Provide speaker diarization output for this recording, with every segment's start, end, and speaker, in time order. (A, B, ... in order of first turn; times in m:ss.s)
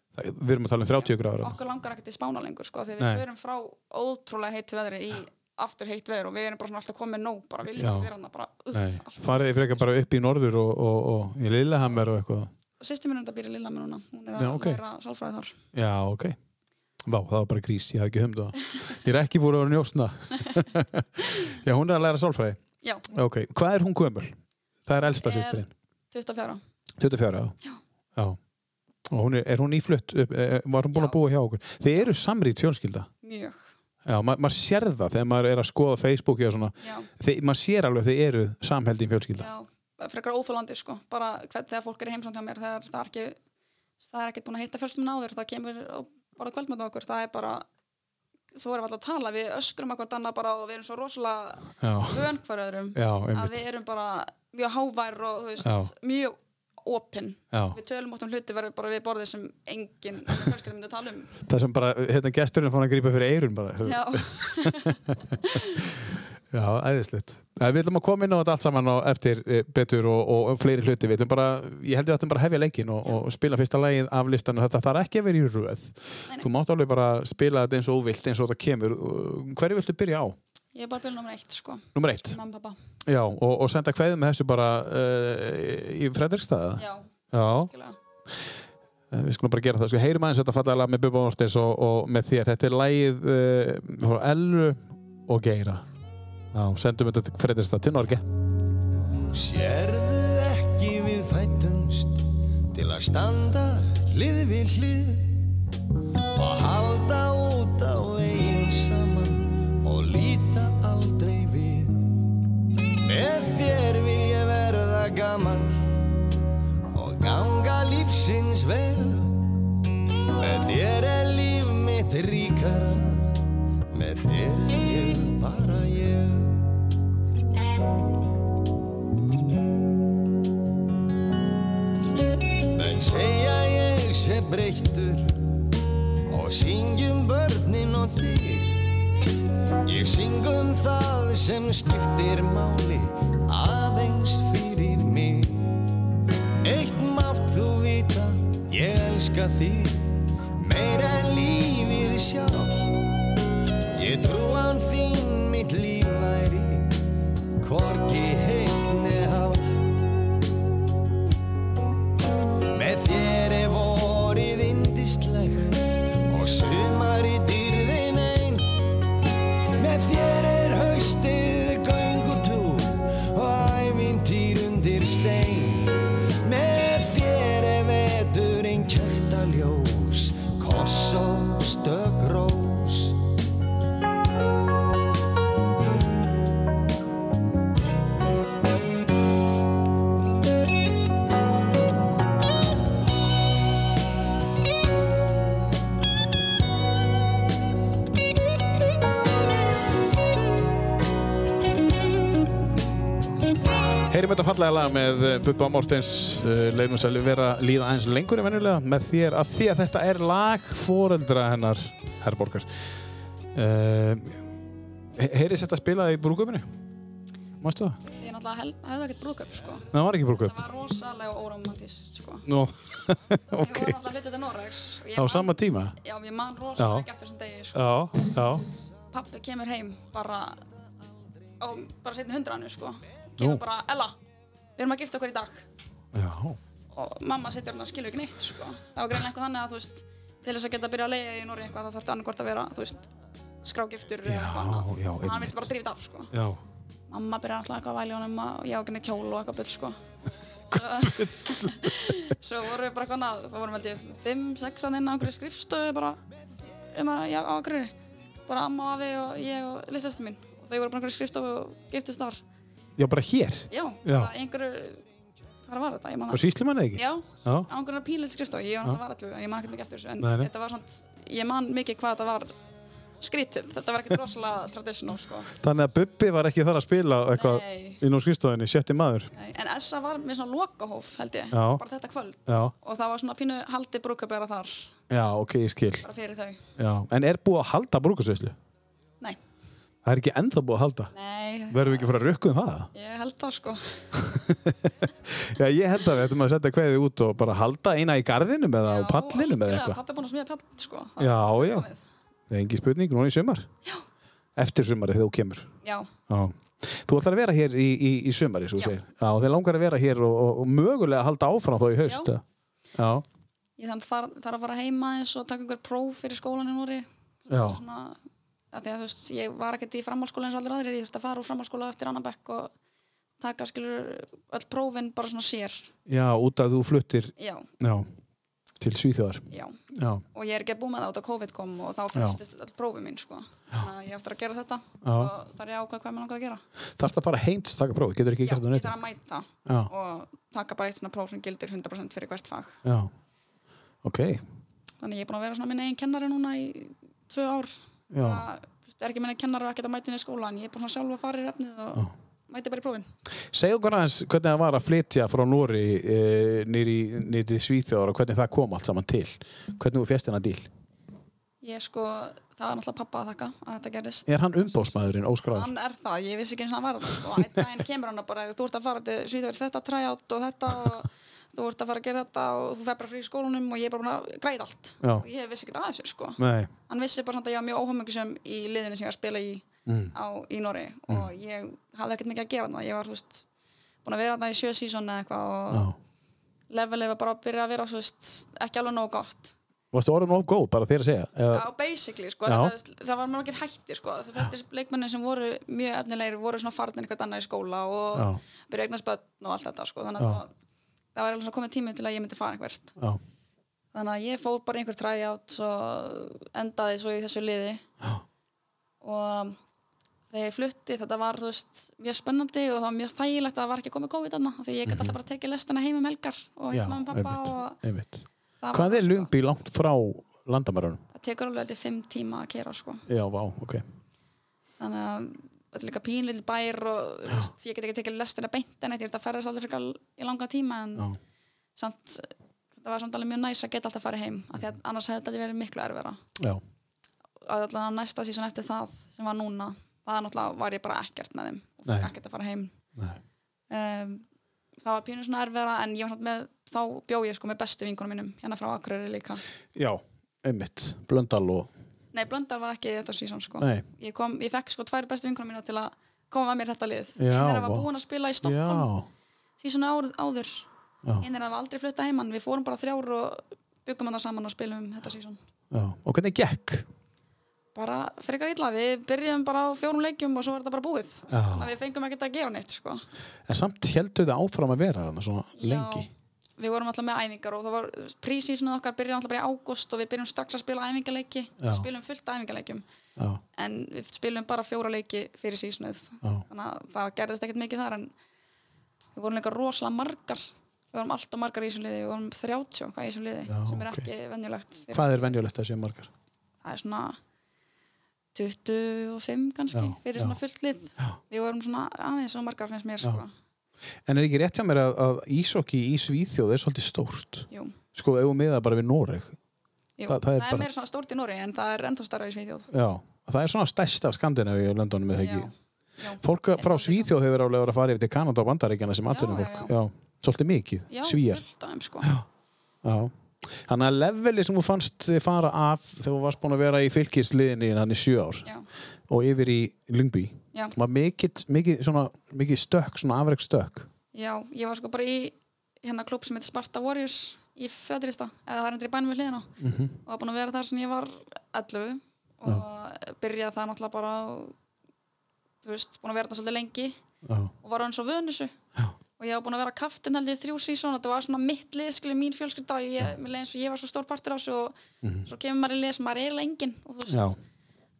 0:00.1-0:01.6 A
0:00.9-0:09.9 B
0:03.0-0:03.2 A
0:07.7-0:08.1 A
0:08.7-0:12.5 A
0:12.8-0:15.6 B
0:14.4-0:14.8 A
0:15.7-0:16.4 A
0:17.0-0:25.7 A
0:22.8-0:23.1 B
0:25.0-0:26.6 B
0:27.0-0:27.5 A
0:29.1-0:33.1 A
0:30.9-0:31.2 B
0:33.2-0:33.7 B
0:34.0-0:39.5 A
0:36.8-0:37.1 B
0:39.4-0:43.4 B
0:44.0-0:47.7 B
0:48.5-1:01.3 B
0:51.8-0:52.3 A
0:52.9-0:53.6 A
0:55.6-0:55.9 A
0:57.5-0:57.8 A
1:01.4-1:20.4 A
1:03.8-1:05.9 B
1:20.7-1:22.8 B
1:21.9-1:22.4 A
1:23.0-1:27.7 A
1:26.8-1:27.1 B
1:27.7-1:28.0 B
1:29.1-1:35.9 A
1:36.5-1:38.3 A
1:39.3-1:45.5 C
1:46.3-1:52.1 C
1:53.0-1:56.1 C
1:56.9-1:59.4 C
2:00.4-2:06.6 C
2:12.6-2:15.4 C
2:16.3-2:18.8 C
2:19.8-2:25.8 C
2:26.6-2:33.0 C
2:33.9-2:37.0 C
2:37.6-2:39.9 C
2:42.7-2:48.8 C
2:49.8-3:03.2 C
3:24.1-3:32.7 A
3:33.5-3:34.4 A
3:35.1-3:36.7 A
3:37.6-3:38.0 A
3:38.2-3:42.5 B
3:39.9-3:40.6 A
3:42.4-3:44.0 A
3:43.6-3:47.8 B
3:45.1-3:46.0 A
3:46.8-3:47.0 A
3:47.7-3:48.7 A
3:49.1-3:50.6 B
3:51.6-3:54.2 B
3:54.8-3:55.7 B
3:56.1-3:56.6 A
3:56.9-4:03.1 B
4:03.6-4:06.3 B
4:04.2-4:05.7 A
4:06.3-4:06.6 A
4:07.1-4:10.0 B
4:10.7-4:16.2 B
4:10.9-4:12.1 A
4:16.9-4:17.9 B
4:18.5-4:22.4 B
4:23.0-4:24.3 A
4:23.7-4:25.0 B
4:25.6-4:32.5 B
4:26.3-4:27.7 A
4:30.2-4:30.5 A
4:33.2-4:35.5 B
4:35.6-4:39.3 A
4:37.3-4:38.0 B
4:39.3-4:45.0 B
4:41.5-4:41.8 A
4:42.5-4:42.7 A
4:45.1-4:46.0 A
4:46.0-4:46.6 B
4:46.8-4:48.6 A
4:50.0-4:51.1 A
4:51.1-4:52.0 B
4:51.7-4:52.9 A
4:52.9-4:54.0 B
4:54.1-5:00.0 A
4:58.8-5:02.0 B
5:01.2-5:01.9 A
5:02.5-5:03.7 A
5:04.6-5:05.7 A
5:05.8-5:06.1 B
5:06.3-5:12.4 A
5:12.0-5:12.3 B
5:12.9-5:13.2 A
5:13.8-5:18.2 B
5:17.5-5:17.8 A
5:18.7-5:22.7 B
5:23.4-5:25.9 B
5:26.0-5:28.1 A
5:27.4-5:27.7 B
5:28.8-5:30.2 A
5:29.5-5:29.8 B
5:30.3-5:36.6 B
5:35.0-5:35.3 A
5:37.0-5:39.0 A
5:38.4-5:42.8 B
5:39.6-5:39.9 A
5:42.8-5:43.1 A
5:44.0-5:44.4 A
5:45.0-5:53.1 B
5:48.1-5:48.4 A
5:53.5-6:00.7 A
6:01.6-6:23.4 B
6:04.3-6:05.7 A
6:16.4-6:16.7 A
6:19.8-6:20.1 A
6:24.0-6:25.9 B
6:25.7-6:26.0 A
6:26.7-6:29.5 B
6:29.9-6:31.6 A
6:31.5-6:40.5 B
6:32.4-6:32.7 A
6:38.1-6:38.4 A
6:41.1-6:42.9 B
6:43.9-6:47.8 B
6:49.0-6:49.6 B
6:50.3-6:57.8 B
6:54.8-6:55.1 A
6:56.7-7:01.0 A
6:58.6-6:59.3 B
7:01.1-7:03.0 B
7:03.1-7:03.8 A
7:04.8-7:11.1 B
7:11.8-7:16.2 B
7:17.4-7:22.7 B
7:23.7-7:24.2 B
7:24.8-7:29.4 B
7:29.7-7:31.7 A
7:32.1-7:38.9 B
7:33.6-7:33.8 A
7:37.2-7:37.9 A
7:38.4-7:39.1 A
7:39.6-7:40.7 B
7:41.2-7:45.4 B
7:45.7-7:46.8 A
7:47.7-7:53.0 B
7:51.3-7:51.7 A
7:53.5-7:56.1 A
7:55.6-8:02.8 B
8:01.6-8:01.9 A
8:03.2-8:03.4 A
8:03.6-8:08.1 B
8:09.1-8:15.4 B
8:13.5-8:14.1 A
8:14.9-8:16.1 A
8:16.6-8:17.2 B
8:18.3-8:23.3 B
8:19.7-8:20.4 A
8:24.0-8:29.4 A
8:27.5-8:27.8 B
8:30.0-8:32.7 B
8:30.1-8:30.7 A
8:32.7-8:35.5 A
8:35.1-8:37.1 B
8:36.2-8:41.4 A
8:39.1-8:39.7 B
8:40.9-8:42.1 B
8:42.8-8:48.5 A
8:49.1-8:53.9 A
8:54.1-8:59.5 B
8:59.6-8:59.9 A
9:00.0-9:04.5 B
9:05.6-9:07.0 B
9:07.2-9:07.5 A
9:07.6-9:08.5 B
9:09.2-9:17.4 B
9:15.0-9:15.3 A
9:17.1-9:17.4 A